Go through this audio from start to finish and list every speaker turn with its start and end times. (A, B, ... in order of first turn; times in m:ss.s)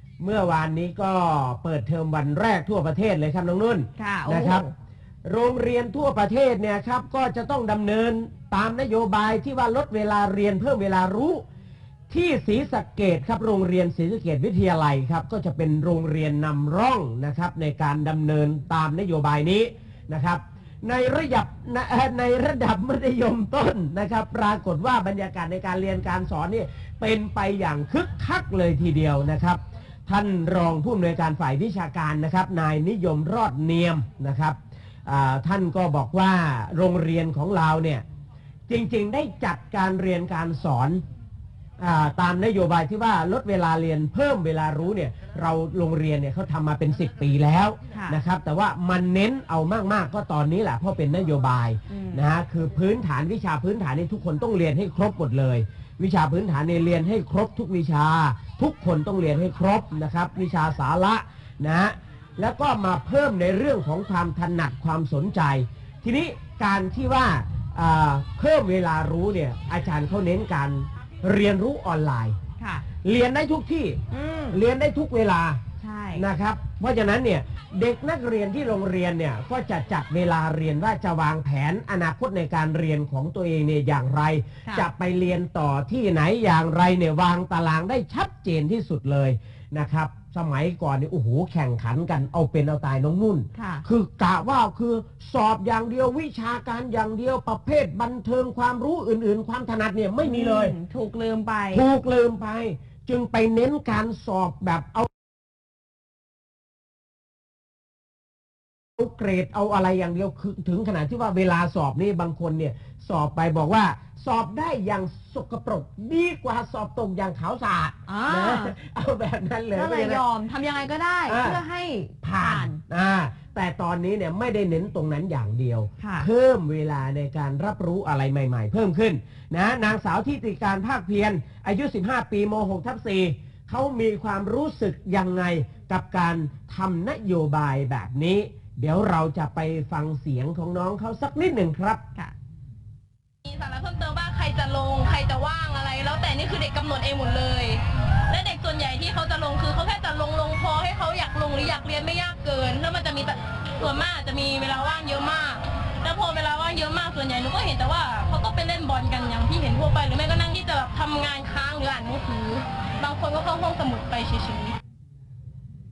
0:00.2-0:04.7 A
0:04.0-0:04.7 B
0:05.2-0:11.4 A
0:12.1-0:38.0 A
0:38.7-0:41.0 A
0:41.8-1:12.4 A
0:47.9-0:48.2 B
0:51.9-0:52.2 B
1:12.6-1:12.8 B
1:13.0-1:15.6 A
1:14.1-1:14.6 B
1:15.8-1:16.2 B
1:16.1-1:40.7 A
1:33.5-1:33.8 B
1:40.2-1:41.8 B
1:41.7-1:45.1 A
1:49.0-2:00.2 A
1:58.1-1:58.8 B
1:59.7-2:02.8 B
2:01.3-2:01.6 A
2:02.2-2:22.0 A
2:06.0-2:06.3 B
2:23.4-2:44.8 C